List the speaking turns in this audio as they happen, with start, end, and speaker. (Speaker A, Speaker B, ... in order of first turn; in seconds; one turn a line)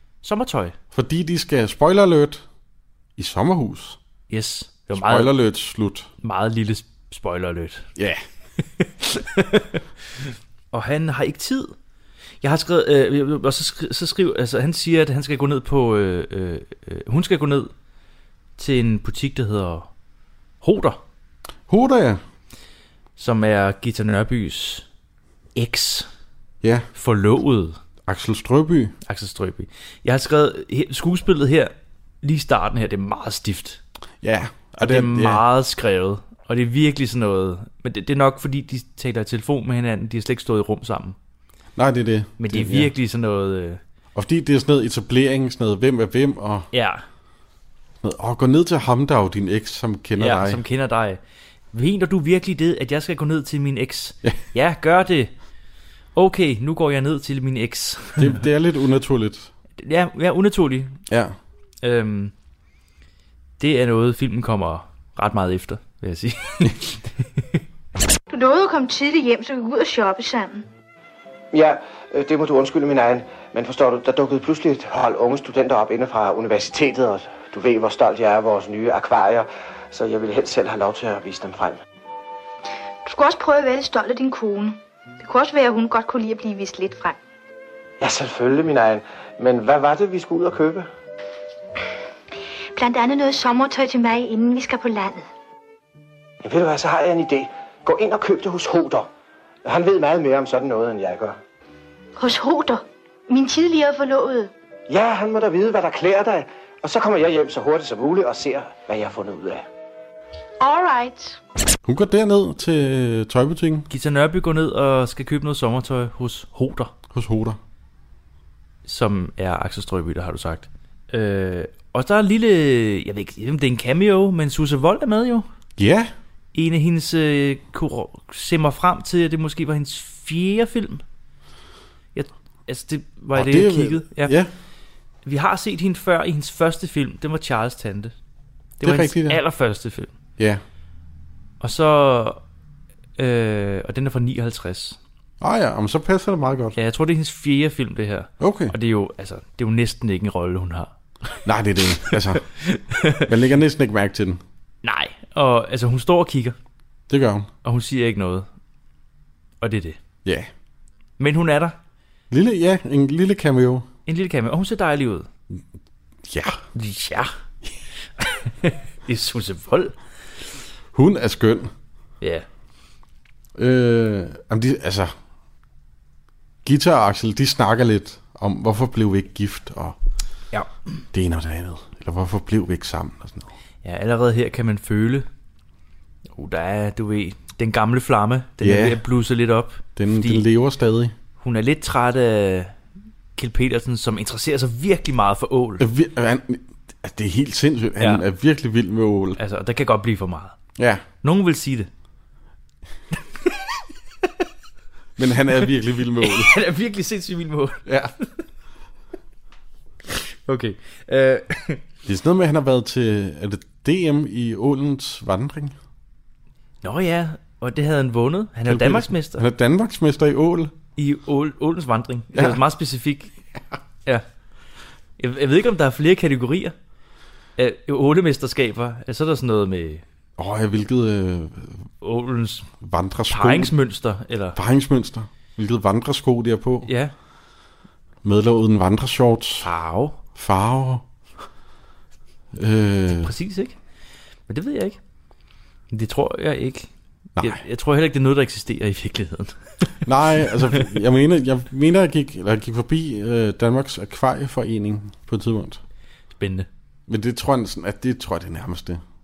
Speaker A: 0.2-0.8
Speaker B: 0.9-2.5
Speaker B: 3.2-4.0
Speaker A: 4.3-5.4
Speaker B: 4.9-6.1
Speaker A: 6.2-7.9
Speaker B: 8.0-8.2
Speaker A: 8.8-11.7
Speaker A: 12.4-17.7
Speaker A: 18.6-19.9
Speaker A: 20.6-21.0
Speaker B: 21.7-22.2
Speaker A: 23.2-24.9
Speaker A: 25.6-26.1
Speaker B: 26.6-26.9
Speaker A: 26.9-27.8
Speaker B: 28.1-28.9
Speaker A: 29.1-33.8
Speaker B: 34.2-35.4
Speaker A: 34.8-41.2
Speaker B: 41.8-42.9
Speaker A: 42.4-43.8
Speaker B: 44.1-46.7
Speaker A: 46.7-47.0
Speaker B: 48.0-50.6
Speaker A: 50.2-51.2
Speaker A: 51.7-55.3
Speaker A: 56.2-58.4
Speaker B: 58.2-59.5
Speaker A: 59.8-61.0
Speaker B: 61.1-61.4
Speaker A: 61.8-62.3
Speaker A: 63.6-67.6
Speaker C: 68.3-70.7
Speaker D: 71.5-81.8
Speaker C: 83.1-87.2
Speaker D: 88.0-90.9
Speaker C: 92.8-95.2
Speaker D: 96.4-99.1
Speaker D: 99.7-101.4
Speaker C: 102.2-104.5
Speaker D: 104.9-109.7
Speaker C: 110.6-111.4
Speaker B: 111.8-113.9
Speaker A: 113.9-116.9
Speaker B: 117.1-117.6
Speaker A: 118.9-125.5
Speaker B: 125.8-126.1
Speaker A: 126.5-131.0
Speaker A: 132.2-134.3
Speaker B: 133.3-134.5
Speaker A: 135.2-138.1
Speaker A: 138.8-140.1
Speaker B: 138.8-139.4
Speaker A: 141.6-142.4
Speaker A: 143.2-145.0
Speaker B: 145.4-146.8
Speaker A: 146.8-150.9
Speaker B: 148.4-148.8
Speaker B: 151.4-152.4
Speaker A: 152.1-153.3
Speaker B: 153.3-154.4
Speaker A: 154.8-156.6
Speaker B: 157.1-157.5
Speaker A: 157.6-158.5
Speaker A: 159.6-160.0
Speaker A: 161.2-161.8
Speaker B: 162.3-163.9
Speaker A: 164.1-165.3
Speaker B: 166.3-166.6
Speaker A: 166.7-167.3
Speaker A: 168.2-169.9
Speaker B: 170.9-171.7
Speaker A: 172.2-172.5
Speaker B: 173.6-175.1
Speaker B: 176.7-180.0
Speaker B: 181.1-183.5
Speaker A: 183.8-185.3
Speaker A: 186.3-190.4
Speaker B: 188.6-189.0
Speaker B: 190.0-191.1
Speaker A: 191.4-192.7
Speaker A: 193.4-195.8
Speaker B: 195.8-199.4
Speaker A: 198.0-198.2
Speaker A: 199.4-200.6
Speaker B: 200.8-201.1
Speaker A: 201.2-201.9
Speaker B: 205.2-206.6
Speaker A: 206.2-207.9
Speaker B: 207.9-208.1
Speaker A: 210.5-211.8
Speaker B: 212.1-215.8
Speaker A: 216.8-219.4
Speaker B: 218.7-220.7
Speaker A: 221.0-223.3
Speaker B: 222.3-222.6
Speaker A: 225.2-226.7
Speaker A: 227.6-230.0
Speaker B: 230.4-231.8
Speaker A: 232.0-232.7
Speaker B: 232.8-233.7
Speaker A: 233.3-234.6
Speaker B: 234.6-236.9
Speaker A: 236.8-237.1
Speaker B: 238.2-239.7
Speaker A: 239.6-240.2
Speaker B: 240.3-241.0
Speaker B: 242.5-243.3
Speaker A: 243.2-243.8
Speaker A: 244.5-245.0
Speaker A: 245.9-246.9
Speaker A: 247.4-249.9
Speaker B: 250.1-255.8
Speaker A: 256.4-256.7
Speaker B: 257.1-259.0